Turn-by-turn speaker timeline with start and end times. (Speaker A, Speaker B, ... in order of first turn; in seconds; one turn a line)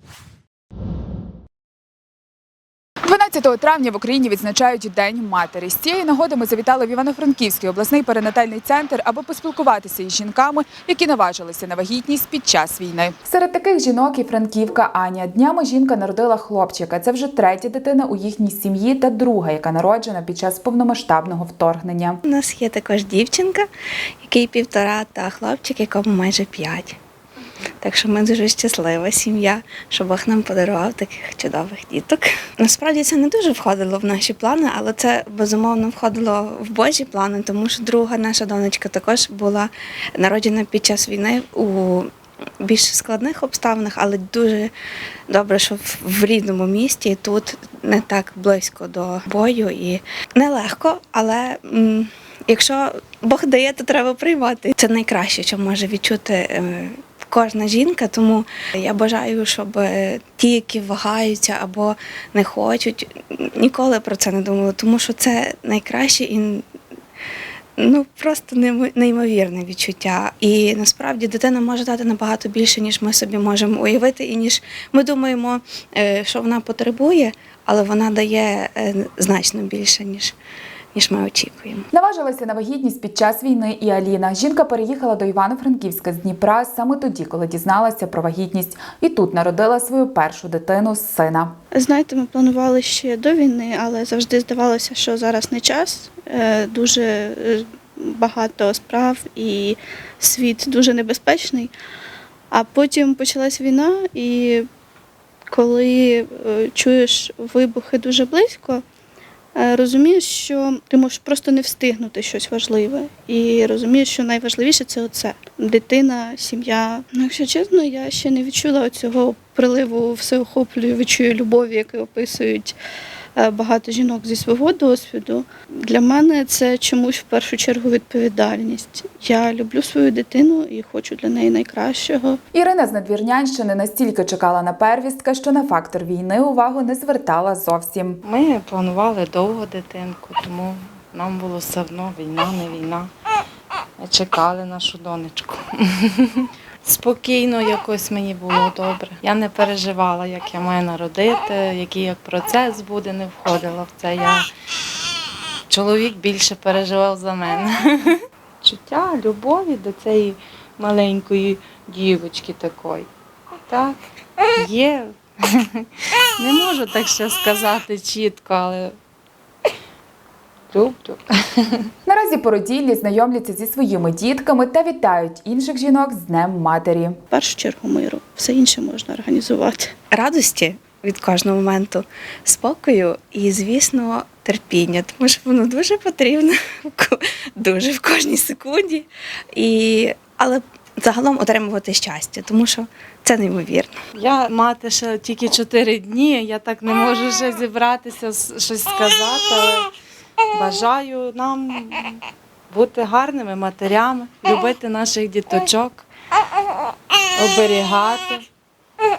Speaker A: 3.1-22.2
Speaker B: 22.2-23.7
Speaker B: 24.2-27.0
Speaker B: 27.8-42.1
Speaker B: 42.6-44.7
Speaker B: 45.3-66.6
Speaker B: 67.8-80.3
Speaker B: 80.9-81.8
Speaker A: 81.9-91.5
Speaker C: 91.7-101.7
Speaker C: 102.5-104.7
Speaker C: 105.5-108.8
Speaker C: 109.5-122.8
Speaker C: 123.3-132.4
Speaker A: 132.5-138.2
Speaker D: 138.2-143.1
Speaker D: 144.0-154.4
Speaker D: 155.7-163.1
Speaker D: 163.7-164.0
Speaker D: 164.6-168.9
Speaker D: 170.7-171.8
Speaker A: 172.1-177.2
Speaker C: 177.3-179.9
Speaker B: 180.1-193.9
Speaker D: 194.2-199.9
Speaker D: 200.5-206.1
Speaker D: 207.3-208.4